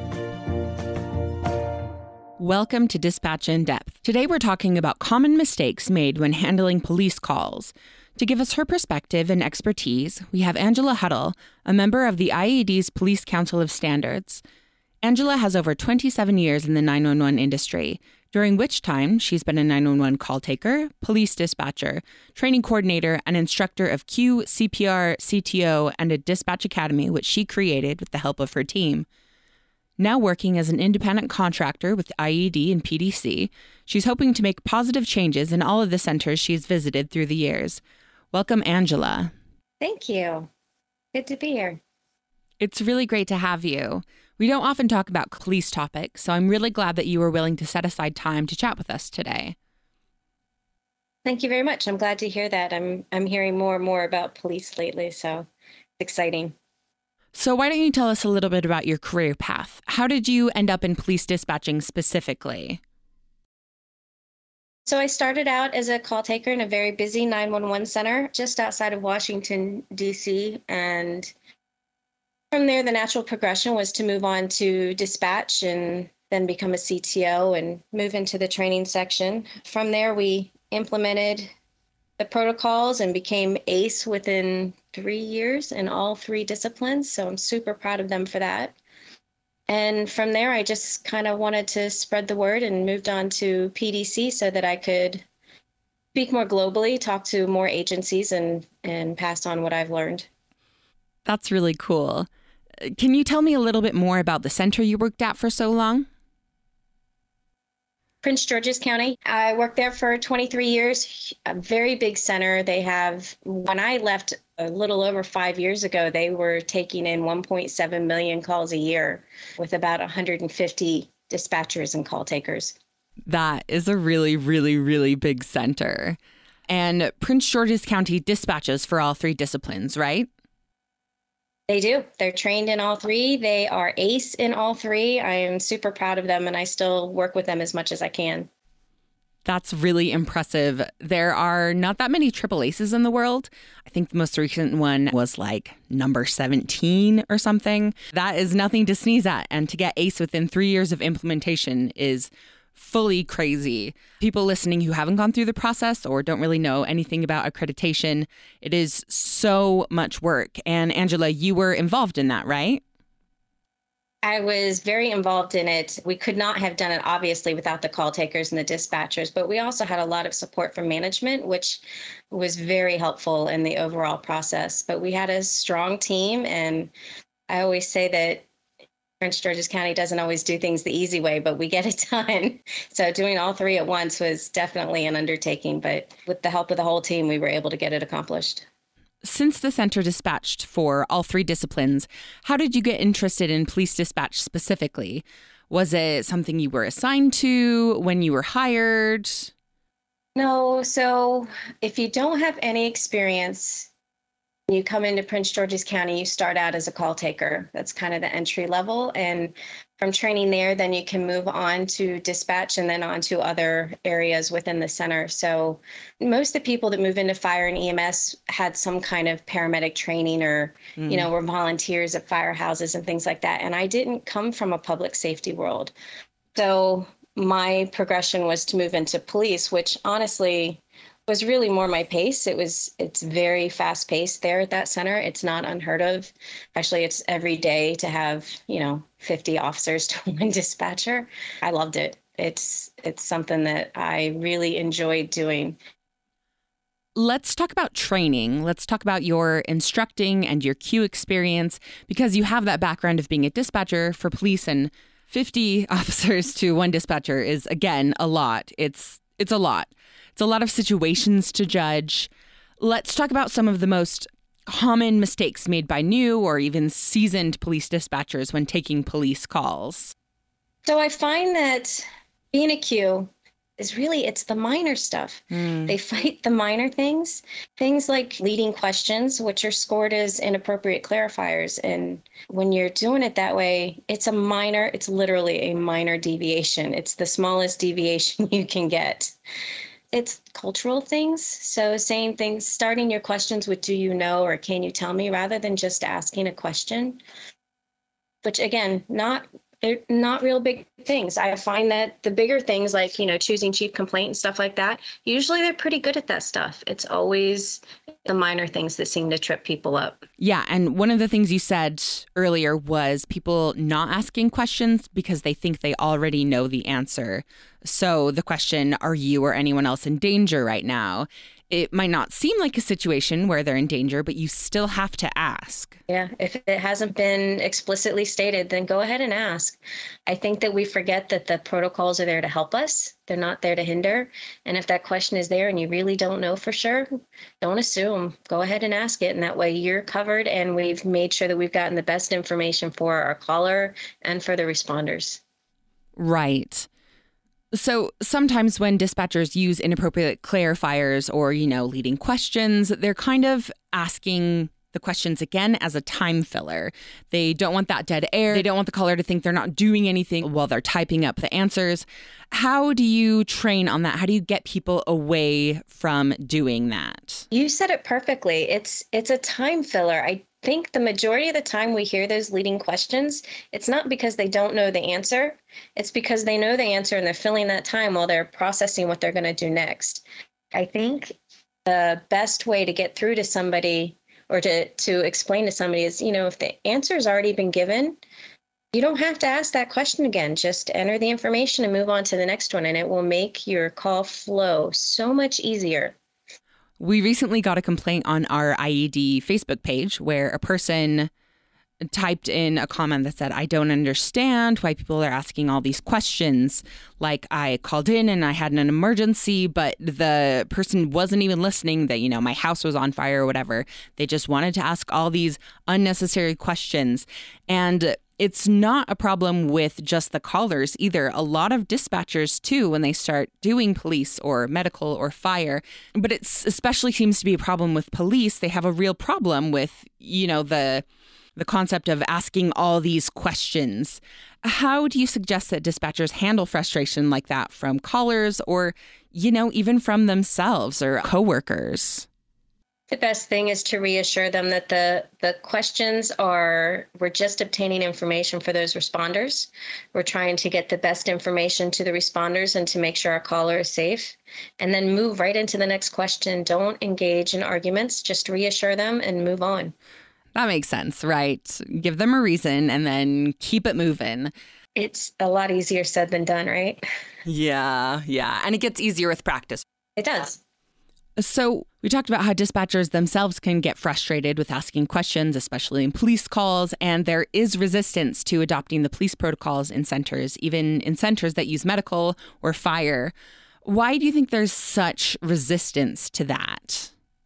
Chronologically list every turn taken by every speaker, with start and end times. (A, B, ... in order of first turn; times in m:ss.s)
0:02.4-0:14.4 A
0:15.0-0:29.1 A
0:30.0-0:37.8 A
0:38.3-0:39.3 A
0:39.8-0:40.5 B
0:41.1-0:41.8 B
0:42.6-0:49.6 A
0:51.2-0:55.5 B
0:56.0-0:56.5 B
0:57.3-1:02.8 A
1:04.9-1:11.3 B
1:12.5-1:21.5 B
1:22.2-1:28.8 B
1:29.7-1:35.2 B
1:36.1-1:40.3 B
1:41.2-1:42.3 A
1:42.8-1:46.0 A
1:48.2-2:02.7 B
2:03.3-2:06.2 A
2:06.7-2:10.3 A
2:11.7-2:18.5 B
2:19.4-2:42.8 A
2:44.2-2:56.9 B
2:57.5-2:58.4 B
2:59.2-3:08.6 B
3:09.2-3:19.5 A
3:20.4-3:23.9 B
3:24.7-3:45.9 B
3:41.0-3:41.3 A
3:46.5-4:05.8 B
4:07.2-4:30.1 A
4:30.8-4:49.4 B
4:35.5-4:35.9 A
4:50.1-4:57.2 B
4:58.4-5:10.2 B
5:10.4-5:26.0 A
5:26.1-5:37.1 B
5:37.6-5:45.4 B
5:46.2-5:46.9 A
5:47.7-6:07.4 A
6:07.5-6:21.3 B
6:21.8-6:28.2 B
6:28.9-6:36.1 B
6:37.0-6:41.3 A
6:42.1-7:11.0 A
7:11.6-7:22.3 A
7:23.1-7:39.9 B
7:40.5-7:44.5 A
7:45.0-7:47.0 B
7:47.4-7:49.8 A
7:50.2-7:50.6 B
7:51.4-8:03.3 A
8:03.8-8:07.1 A